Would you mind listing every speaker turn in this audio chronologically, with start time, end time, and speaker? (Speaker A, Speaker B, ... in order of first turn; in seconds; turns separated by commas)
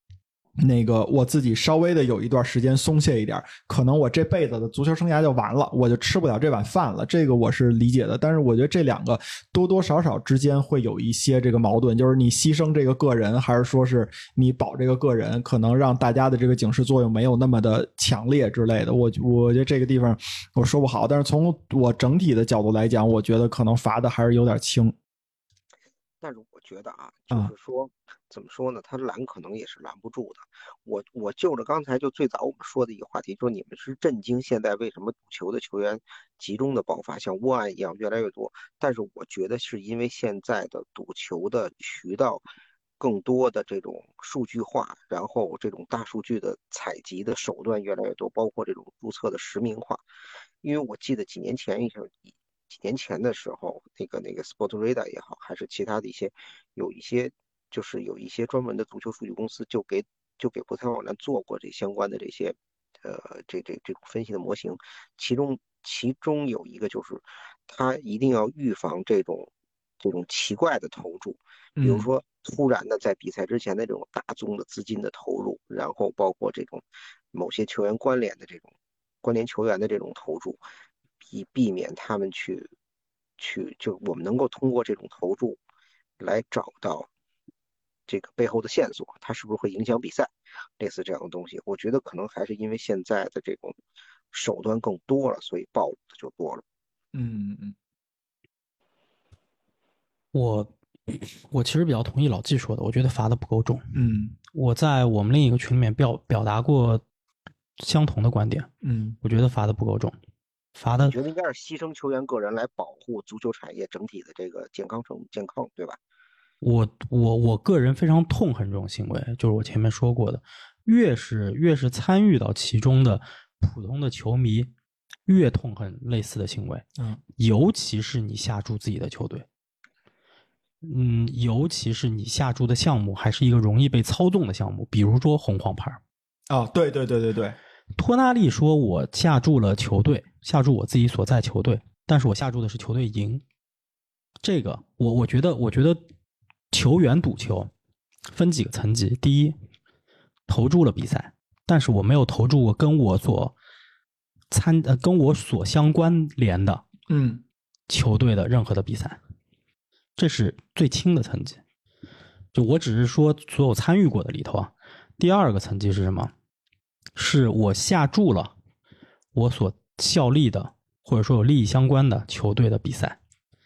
Speaker A: 0.6-25.0, Speaker B: 26.2-42.5, Speaker B: 43.0-50.0, Speaker B: 50.6-80.6, Speaker A: 71.8-72.1, Speaker B: 81.2-82.7, Speaker B: 83.4-85.6, Speaker B: 86.2-87.1, Speaker B: 88.1-93.8, Speaker B: 94.3-96.6, Speaker A: 97.1-97.8, Speaker C: 100.3-103.9, Speaker A: 103.9-104.4, Speaker C: 104.5-107.0, Speaker C: 107.8-108.7, Speaker A: 108.8-109.2, Speaker C: 109.2-110.2, Speaker C: 110.8-111.2, Speaker B: 111.0-116.0, Speaker C: 116.6-124.7, Speaker C: 125.3-126.8, Speaker C: 127.4-129.5, Speaker C: 130.8-136.0, Speaker A: 136.5-137.6, Speaker C: 138.0-143.4, Speaker C: 144.4-146.0, Speaker C: 146.7-147.7, Speaker C: 148.3-149.6, Speaker C: 150.5-153.6, Speaker C: 154.5-156.8, Speaker A: 157.1-157.4, Speaker C: 157.9-159.2, Speaker C: 160.2-161.6, Speaker C: 162.5-166.3, Speaker C: 167.2-168.5, Speaker C: 169.3-173.2